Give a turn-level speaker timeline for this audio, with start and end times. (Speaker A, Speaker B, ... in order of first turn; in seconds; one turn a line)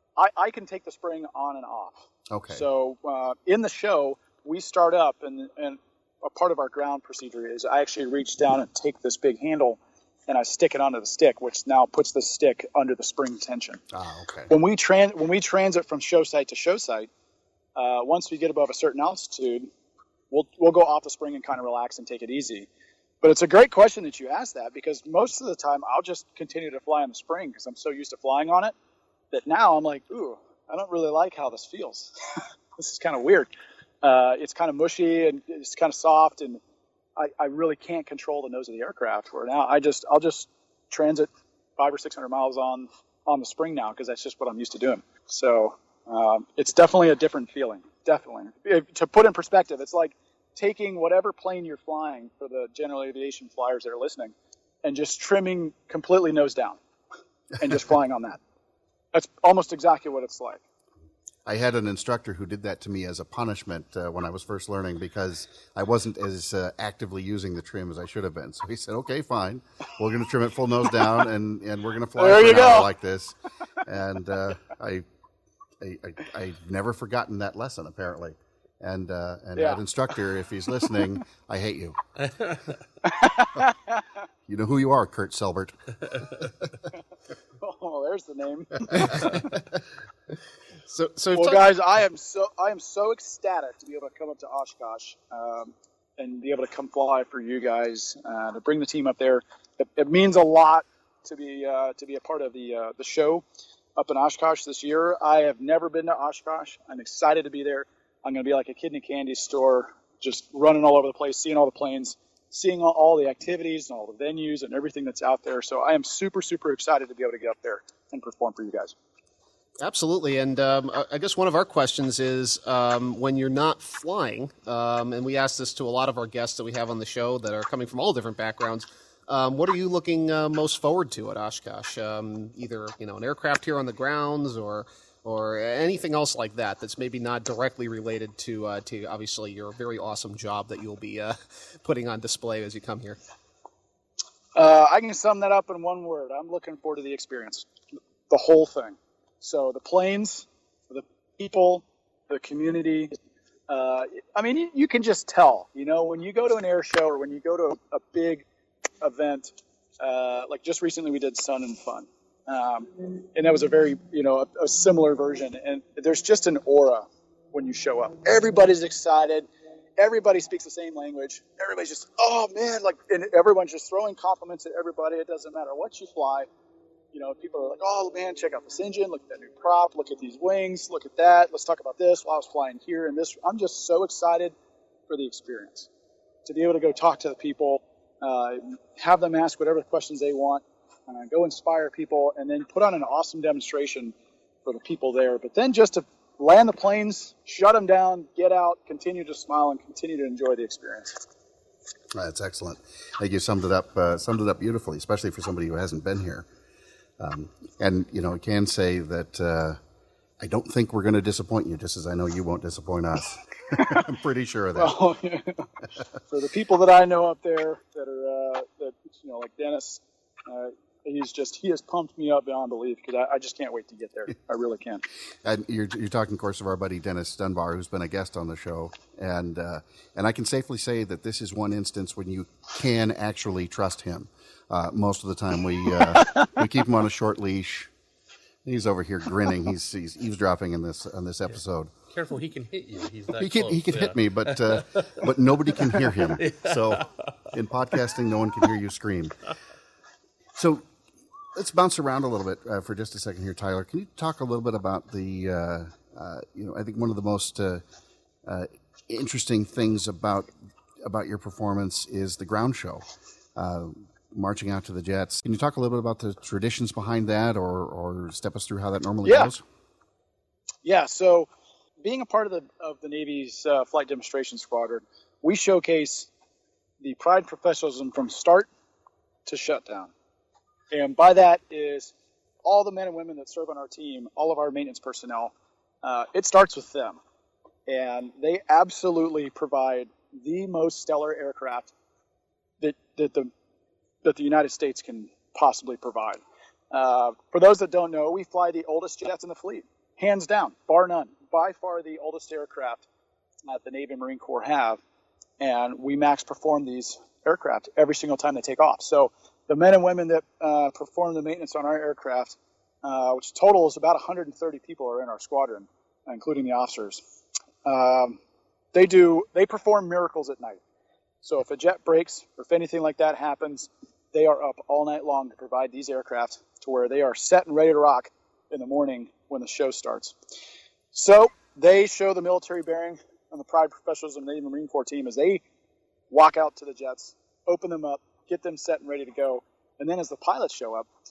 Speaker A: 0.2-13.8
Speaker B: 2.3-2.6
Speaker B: 13.9-14.5
Speaker A: 14.5-17.1
Speaker A: 17.8-19.7
Speaker A: 20.3-22.7
Speaker A: 23.2-28.7
Speaker A: 29.3-32.1
Speaker A: 32.8-33.5
Speaker A: 34.0-36.6
Speaker A: 37.1-56.8
Speaker A: 57.6-58.4
Speaker A: 59.1-60.6
Speaker B: 61.5-75.0
Speaker A: 72.2-72.9
Speaker B: 75.8-82.0
Speaker A: 79.5-79.8
Speaker A: 83.0-84.0
Speaker B: 84.5-86.2
Speaker A: 87.6-89.5
Speaker C: 90.9-91.7
Speaker A: 91.3-103.4
Speaker A: 104.0-119.0
Speaker C: 119.8-143.2
Speaker A: 144.6-147.7
Speaker A: 148.3-153.1
Speaker A: 153.7-158.5
Speaker A: 159.0-169.5
Speaker A: 170.0-176.5
Speaker A: 177.1-184.6
Speaker A: 185.1-185.9
Speaker A: 186.4-201.2
Speaker B: 202.1-206.5
Speaker B: 207.2-209.8
Speaker B: 210.4-215.0
Speaker A: 213.7-214.0
Speaker A: 214.8-215.7
Speaker A: 216.3-225.0
Speaker B: 225.4-237.9
Speaker B: 238.6-241.9
Speaker D: 242.1-245.1
Speaker B: 243.4-249.3
Speaker D: 246.0-246.7
Speaker B: 250.6-250.9
Speaker B: 251.6-257.8
Speaker B: 258.4-260.5
Speaker B: 261.0-263.0
Speaker B: 263.6-269.6
Speaker A: 269.2-269.5
Speaker A: 270.8-271.5
Speaker A: 272.0-276.3
Speaker A: 277.0-278.7
Speaker A: 279.5-280.1
Speaker A: 280.9-282.1
Speaker A: 282.6-287.2
Speaker A: 287.9-291.9
Speaker A: 292.8-293.5
Speaker A: 294.2-303.1
Speaker A: 303.6-305.0
Speaker A: 305.6-317.2
Speaker A: 317.9-318.4
Speaker A: 318.9-320.8
Speaker A: 321.4-330.4
Speaker A: 331.1-335.6
Speaker A: 336.3-341.1